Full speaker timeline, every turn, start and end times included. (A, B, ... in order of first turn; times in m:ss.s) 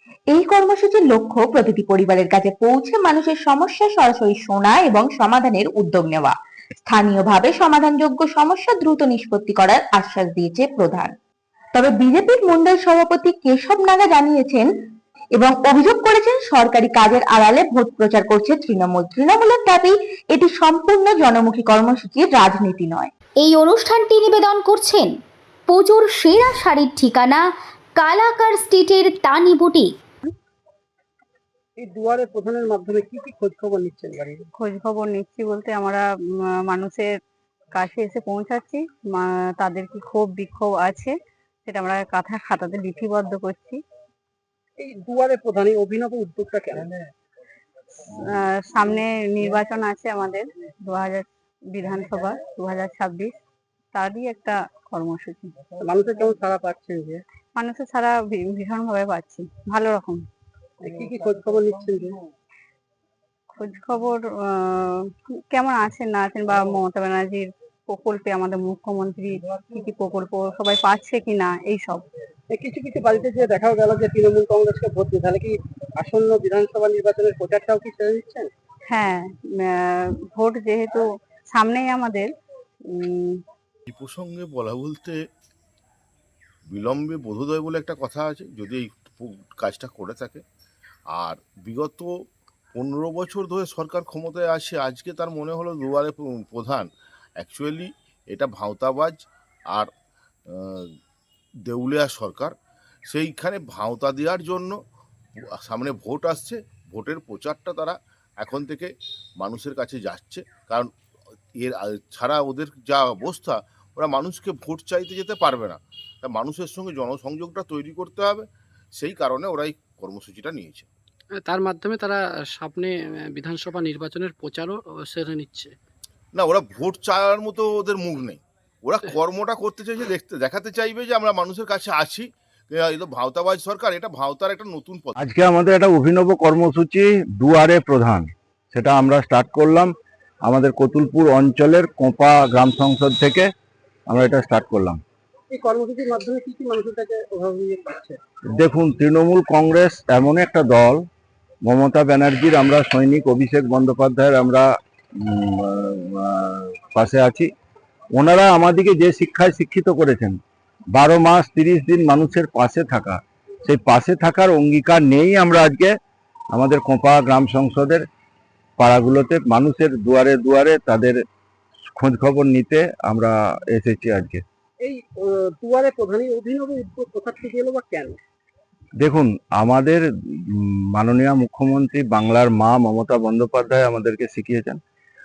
0:00.3-0:11.1 A
0:11.8-0:14.7 A
0:15.4-0:23.1 A
0:23.4-0:25.1 B
0:25.7-0:27.4 B
0:28.0-0:29.9 B
0:31.8-0:34.4 C
0:34.6-0:36.0 D
0:36.6-0:37.1 D
0:37.8-0:41.1 D
0:41.7-0:43.8 D
0:44.8-0:46.9 C
0:48.1-0:53.4 D
0:53.9-0:55.5 D
0:55.8-0:57.2 C
0:57.6-1:00.2 D
1:00.8-1:02.2 C
1:03.6-1:12.0 D
1:12.5-1:18.5 C
1:18.9-1:22.3 D
1:22.9-1:23.4 D
1:23.9-1:25.2 E
1:26.7-1:30.4 E
1:31.1-1:32.1 E
1:32.7-1:36.9 E
1:37.4-1:39.2 E
1:40.5-1:40.9 E
1:41.7-1:42.5 E
1:43.1-1:44.8 E
1:45.6-1:50.9 E
1:51.6-2:00.9 E
2:01.4-2:05.8 F
2:06.3-2:15.2 E
2:15.2-2:19.9 G
2:20.4-2:23.5 G
2:24.1-2:25.0 G
2:25.5-2:28.2 C
2:28.6-2:31.0 G
2:31.6-2:34.7 G
2:35.2-2:37.5 G
2:38.2-2:40.4 G
2:40.9-2:45.9 G
2:46.5-2:48.0 G
2:48.8-2:51.2 G
2:52.0-2:54.4 G
2:54.8-2:58.2 C
2:59.0-3:04.8 G